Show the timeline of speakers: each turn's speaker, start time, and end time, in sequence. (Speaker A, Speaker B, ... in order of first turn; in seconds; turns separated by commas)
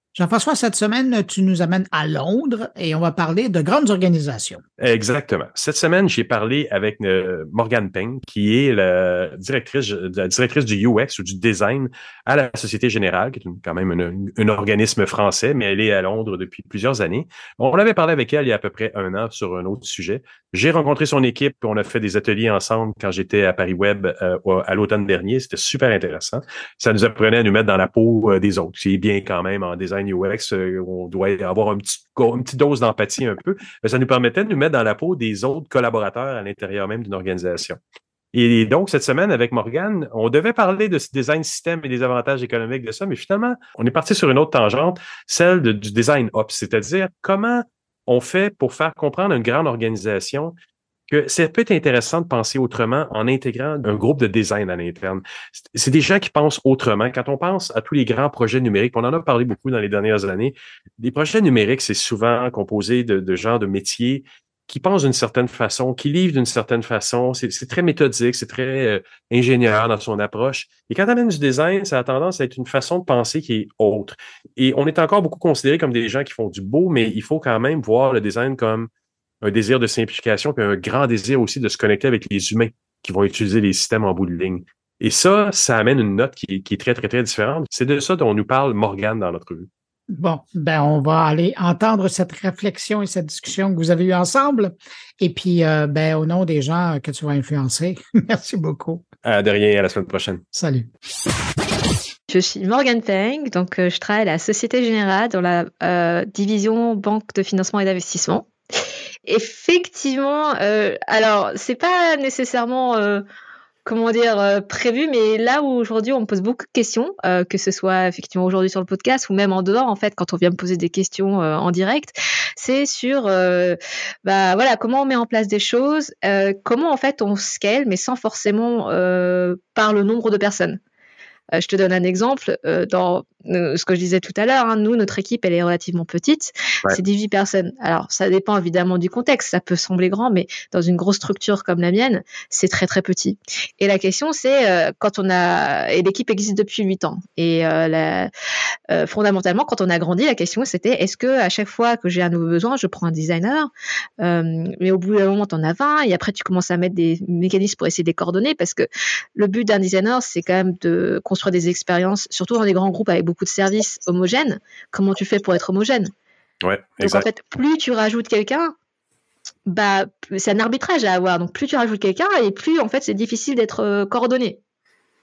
Speaker A: 0.1-4.6, Speaker B: 4.8-37.8, Speaker B: 38.3-50.5, Speaker B: 51.1-78.9, Speaker B: 79.4-89.7, Speaker A: 90.1-99.0, Speaker B: 99.2-100.4, Speaker A: 100.5-100.9, Speaker C: 102.3-108.5, Speaker C: 109.2-113.2, Speaker C: 113.8-130.8, Speaker C: 131.6-148.3, Speaker C: 148.9-153.7, Speaker C: 154.2-166.1, Speaker B: 166.6-167.3, Speaker C: 167.0-168.7, Speaker C: 169.7-174.6